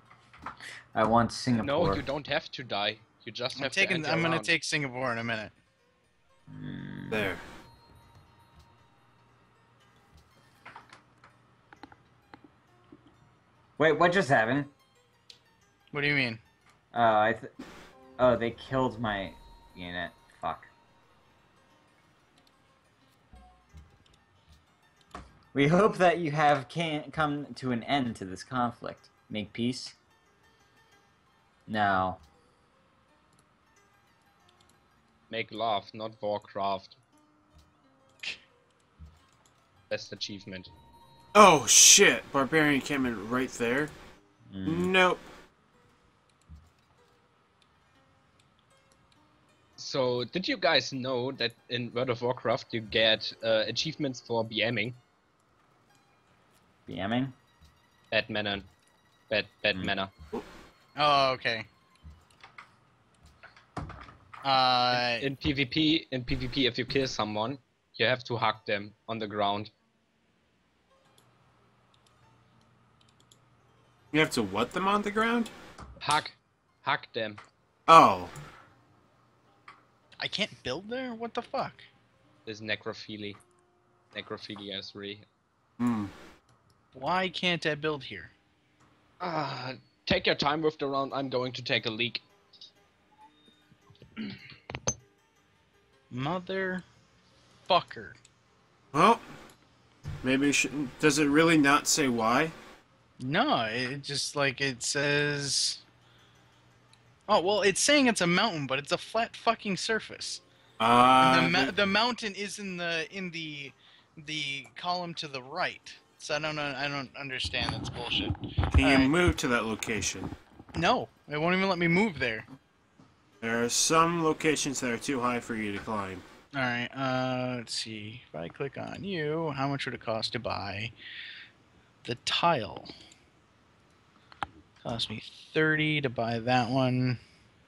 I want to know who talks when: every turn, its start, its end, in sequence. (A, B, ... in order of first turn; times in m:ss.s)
0:00.9-0:02.0 A
0:01.6-0:04.6 B
0:03.6-0:05.5 C
0:06.5-0:07.3 A
0:07.1-0:07.4 D
0:13.8-0:14.7 A
0:15.9-0:16.4 C
0:16.9-0:17.5 A
0:18.2-0:20.7 A
0:25.5-0:30.0 A
0:31.7-0:32.2 A
0:35.3-0:37.0 B
0:39.9-0:40.7 B
0:41.4-0:43.9 D
0:44.5-0:44.9 A
0:44.6-0:45.2 D
0:49.8-0:55.0 B
0:56.9-0:57.3 A
0:58.1-0:58.7 B
0:59.3-1:00.1 B
1:01.0-1:01.7 C
1:04.4-1:05.3 C
1:04.9-1:09.7 B
1:14.1-1:15.5 D
1:16.0-1:17.4 B
1:17.9-1:18.3 D
1:20.2-1:21.9 C
1:22.4-1:23.4 B
1:24.1-1:25.2 B
1:25.8-1:26.1 D
1:26.9-1:28.3 C
1:29.2-1:32.2 B
1:36.1-1:36.8 C
1:37.7-1:38.2 C
1:38.9-1:39.2 D
1:40.2-1:42.5 D
1:43.2-1:45.8 C
1:47.3-1:50.4 C
1:50.8-1:51.8 D
1:51.2-1:59.1 C
1:58.7-2:00.3 D
2:00.8-2:02.4 C
2:03.4-2:06.2 D
2:06.6-2:10.9 C
2:12.0-2:12.9 C
2:14.8-2:17.2 C